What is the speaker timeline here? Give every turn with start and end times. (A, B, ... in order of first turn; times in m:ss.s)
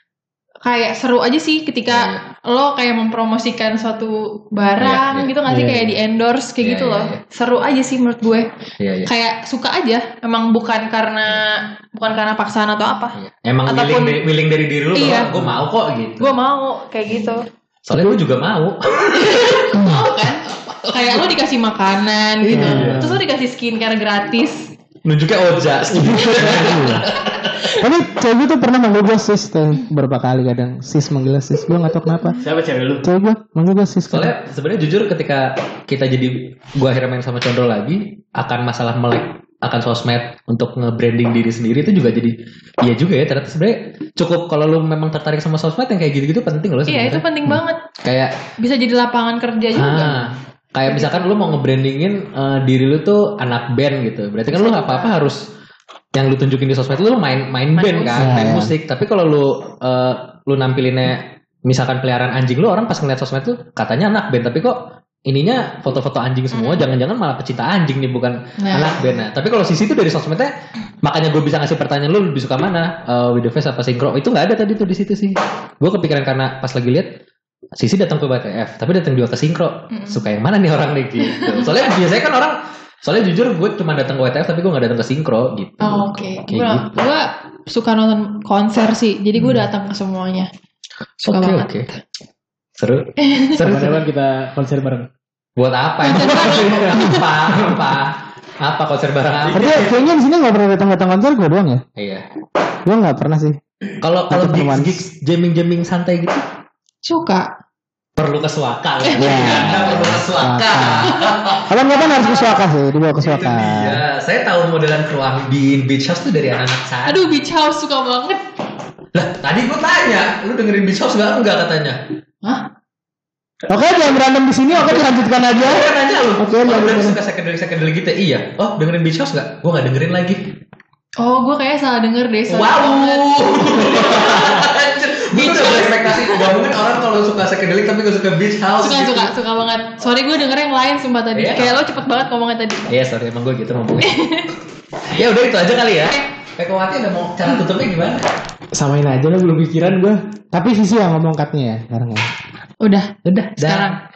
0:00.6-0:08.5 A
0:01.9-0:02.2 B
0:04.8-0:05.3 B
0:05.5-0:06.0 C
0:06.6-0:07.2 B
0:08.8-0:09.1 B
0:09.0-0:13.2 A
0:13.1-0:16.3 B
0:13.7-0:14.2 A
0:14.9-0:15.3 A
0:15.3-0:15.6 C
0:16.2-0:17.4 A
0:17.8-0:19.8 B
0:19.1-0:24.7 A
0:19.7-0:20.1 D
0:20.7-0:21.3 B
0:22.4-0:23.1 B
0:22.5-0:23.2 C
0:25.0-0:27.8 B
0:25.9-0:26.9 C
0:26.0-0:27.1 D
0:27.5-0:27.8 A
0:27.7-0:32.4 D
0:32.4-0:33.0 C
0:33.0-0:34.3 D
0:34.1-0:48.3 B
0:46.9-0:47.8 A
0:48.6-0:50.3 A
0:49.7-0:55.4 B
0:50.9-0:51.2 A
0:54.5-0:55.1 A
0:56.1-1:10.5 B
0:57.8-0:58.2 A
0:58.1-0:58.7 D
1:06.5-1:06.8 A
1:08.6-1:09.2 A
1:11.0-1:17.1 B
1:17.8-1:26.9 B
1:19.9-1:20.2 A
1:21.2-1:21.7 A
1:25.8-1:30.5 A
1:31.2-1:31.9 B
1:31.2-1:32.0 A
1:32.8-1:34.0 B
1:33.2-1:33.6 A
1:33.6-1:35.1 C
1:35.6-1:39.9 B
1:36.0-1:37.3 A
1:36.2-1:37.9 C
1:39.4-1:40.1 C
1:39.5-1:41.8 D
1:42.0-1:42.2 B
1:42.8-1:43.6 D
1:44.0-1:46.4 B
1:44.3-1:45.0 D
1:47.0-1:47.5 A
1:48.2-1:51.7 B
1:49.0-1:49.9 A
1:49.2-1:54.0 D
1:51.1-1:52.6 A
1:53.1-1:57.3 B
1:57.0-1:58.4 A
1:59.1-2:02.0 B
2:03.7-2:07.2 D
2:04.8-2:10.4 B
2:11.2-2:14.3 A
2:12.5-2:19.3 B
2:15.3-2:16.5 A
2:18.8-2:22.9 A
2:21.3-2:21.8 B
2:22.9-2:24.2 B
2:24.0-2:24.5 A
2:25.1-2:28.2 B
2:28.7-2:30.2 C
2:30.5-2:32.3 D
2:32.8-2:34.0 A
2:33.2-2:33.9 B